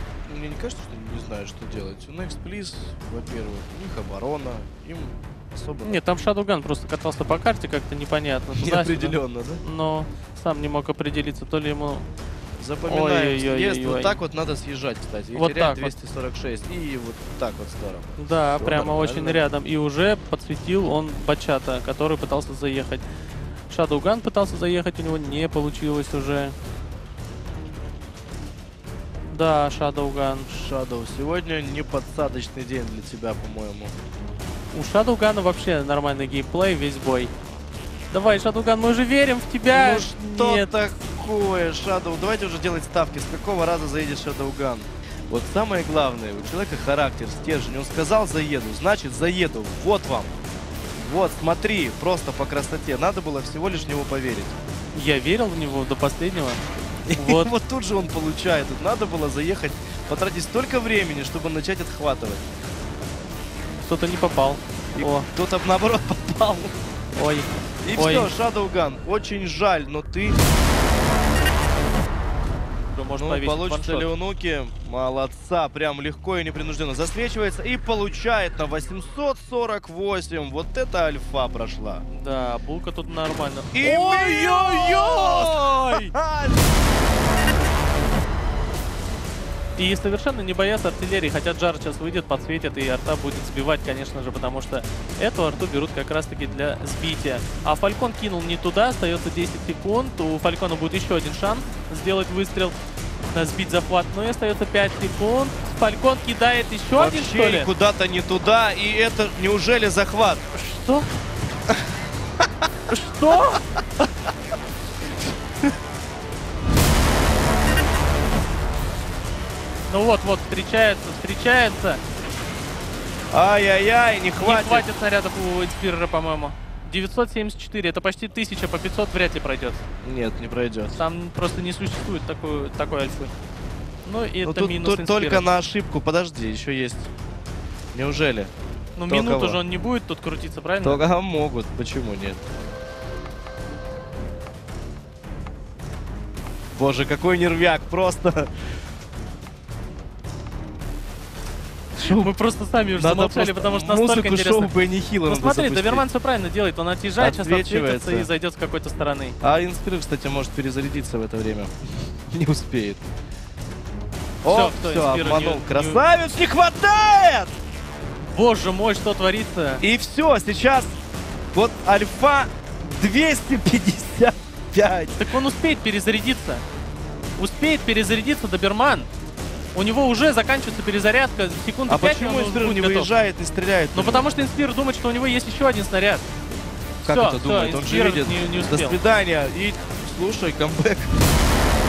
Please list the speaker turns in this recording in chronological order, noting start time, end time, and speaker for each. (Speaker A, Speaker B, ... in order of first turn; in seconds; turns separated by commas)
Speaker A: 0.3-6.0, Speaker B: 5.8-12.1, Speaker A: 8.6-9.6, Speaker A: 12.6-19.4, Speaker B: 12.8-14.2, Speaker B: 15.3-15.9, Speaker B: 18.2-23.1, Speaker B: 23.7-26.5, Speaker B: 29.3-30.5, Speaker A: 30.5-33.9, Speaker B: 34.7-37.3, Speaker B: 38.1-40.8, Speaker A: 39.7-50.3, Speaker A: 51.0-54.6, Speaker B: 54.9-56.6, Speaker A: 57.1-62.5, Speaker B: 57.2-57.5, Speaker B: 63.8-65.3, Speaker A: 65.0-66.7, Speaker B: 67.2-68.3, Speaker A: 67.8-70.4, Speaker B: 72.9-74.1, Speaker A: 73.1-82.0, Speaker B: 82.1-86.1, Speaker A: 83.7-86.6, Speaker B: 89.8-102.8, Speaker B: 103.3-107.7, Speaker A: 107.0-110.4, Speaker B: 110.5-111.1, Speaker B: 112.9-113.6, Speaker B: 119.9-122.0, Speaker A: 123.3-124.9, Speaker B: 124.4-129.8, Speaker A: 130.0-131.0, Speaker B: 130.9-133.3, Speaker B: 134.1-135.5, Speaker A: 134.4-137.1, Speaker A: 137.9-138.5, Speaker B: 139.0-141.0, Speaker A: 139.1-139.6, Speaker A: 140.8-142.4, Speaker A: 146.8-148.5, Speaker A: 152.0-152.3, Speaker B: 152.0-154.7, Speaker A: 152.9-156.1, Speaker B: 155.2-159.4, Speaker A: 157.2-158.3, Speaker A: 159.4-161.7, Speaker A: 162.3-163.0, Speaker A: 164.4-167.6, Speaker B: 164.4-166.0, Speaker B: 168.3-169.8, Speaker A: 169.8-171.0, Speaker A: 171.5-175.2, Speaker B: 175.2-176.6, Speaker B: 177.4-179.1, Speaker B: 179.7-183.1, Speaker A: 181.9-184.3, Speaker B: 183.9-186.3, Speaker B: 187.1-189.0, Speaker A: 187.1-191.1